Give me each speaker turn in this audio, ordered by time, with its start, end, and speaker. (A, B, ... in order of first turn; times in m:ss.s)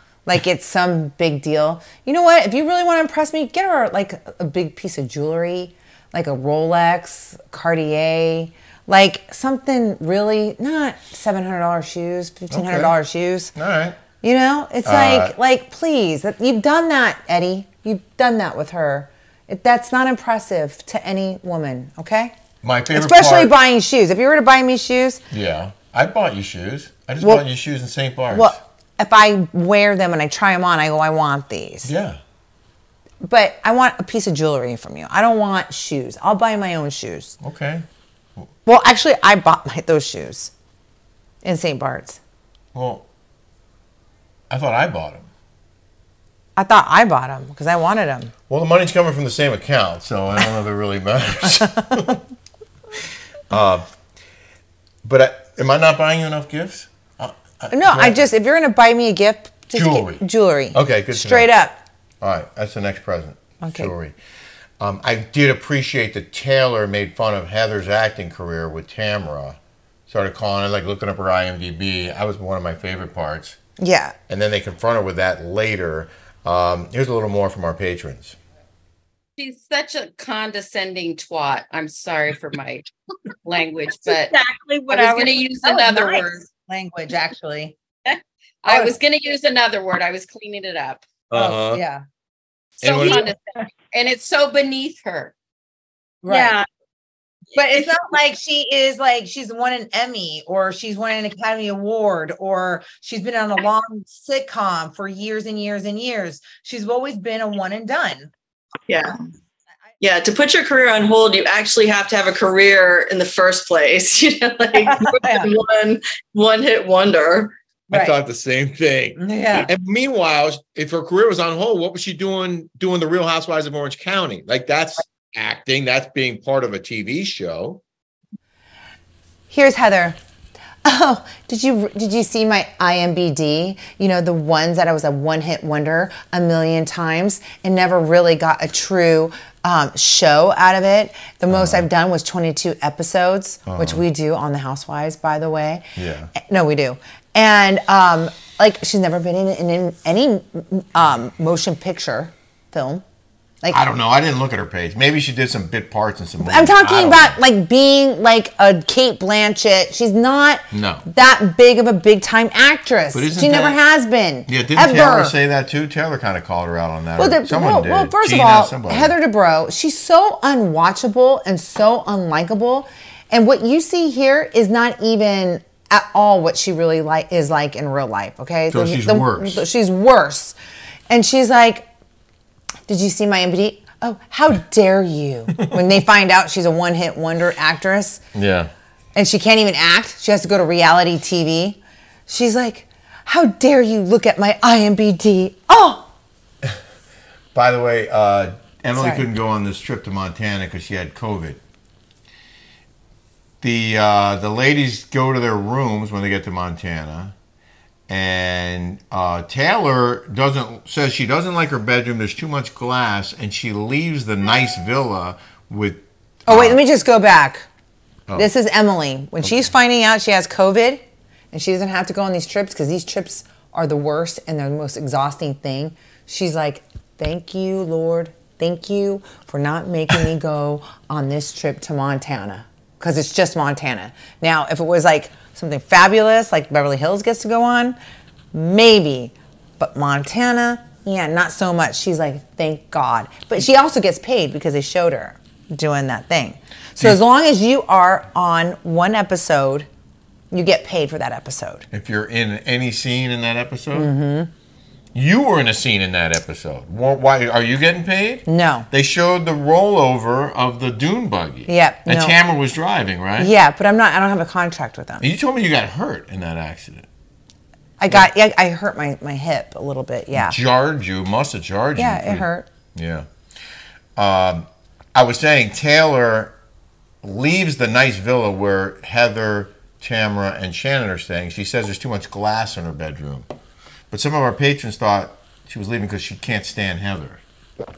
0:00.3-0:13.5 A
0:12.5-0:13.0 B
0:13.6-0:14.0 B
0:14.2-0:22.3 A
0:14.8-0:15.4 B
0:22.6-0:23.5 B
0:22.9-0:25.2 A
0:25.3-0:28.6 B
0:28.3-0:31.9 A
0:31.8-0:32.2 B
0:33.2-0:37.4 A
0:37.4-0:37.9 B
0:38.7-0:40.5 A
0:41.4-0:42.2 A
0:42.7-0:43.1 B
0:44.5-0:45.3 B
0:46.6-0:48.3 A
0:48.5-0:52.2 B
0:53.5-0:53.9 B
0:55.0-0:58.2 B
0:57.7-1:01.8 A
0:59.7-1:01.5 B
1:02.2-1:04.1 B
1:03.6-1:03.9 A
1:04.8-1:13.6 B
1:13.8-1:14.2 A
1:14.3-1:18.4 B
1:19.4-1:22.9 C
1:23.4-1:24.4 C
1:24.3-1:27.8 D
1:24.9-1:26.4 C
1:28.0-1:31.1 C
1:28.7-1:29.0 D
1:31.3-1:31.8 B
1:31.4-1:32.0 D
1:32.8-1:33.4 C
1:32.8-1:33.3 B
1:32.9-1:33.4 D
1:33.9-1:35.3 C
1:36.2-1:36.6 D
1:36.3-1:36.6 C
1:37.6-1:48.3 D
1:48.9-1:49.2 E
1:50.0-1:57.5 E
1:54.8-1:55.5 D
1:57.9-2:07.8 B
1:59.2-1:59.7 D
2:09.5-2:10.2 A
2:10.8-2:33.0 A
2:21.5-2:21.9 B
2:23.7-2:24.0 B
2:26.0-2:26.3 B
2:33.7-2:37.4 B
2:36.4-2:45.4 A
2:40.7-2:41.1 B
2:43.1-2:43.8 B
2:44.5-2:49.2 B
2:47.2-3:00.6 A
2:58.7-2:59.6 B
3:01.1-3:01.9 A
3:02.9-3:08.2 A
3:08.3-3:08.7 B
3:09.2-3:16.1 A
3:17.6-3:21.6 B
3:19.0-3:19.2 A
3:23.6-3:27.3 B
3:28.1-3:36.8 B
3:36.5-3:37.7 A
3:38.4-3:58.0 A
3:39.4-3:39.7 B
3:58.5-4:09.9 A
4:10.5-4:11.8 A
4:11.9-4:14.1 B
4:13.9-4:14.5 A
4:15.2-4:23.5 B
4:18.5-4:18.9 A
4:21.7-4:22.4 A
4:23.4-4:25.2 A
4:25.2-4:27.1 B
4:28.0-4:30.6 A
4:30.3-4:33.3 B
4:32.0-4:32.7 A
4:34.2-4:36.5 B
4:37.2-4:43.5 B
4:44.1-4:47.4 B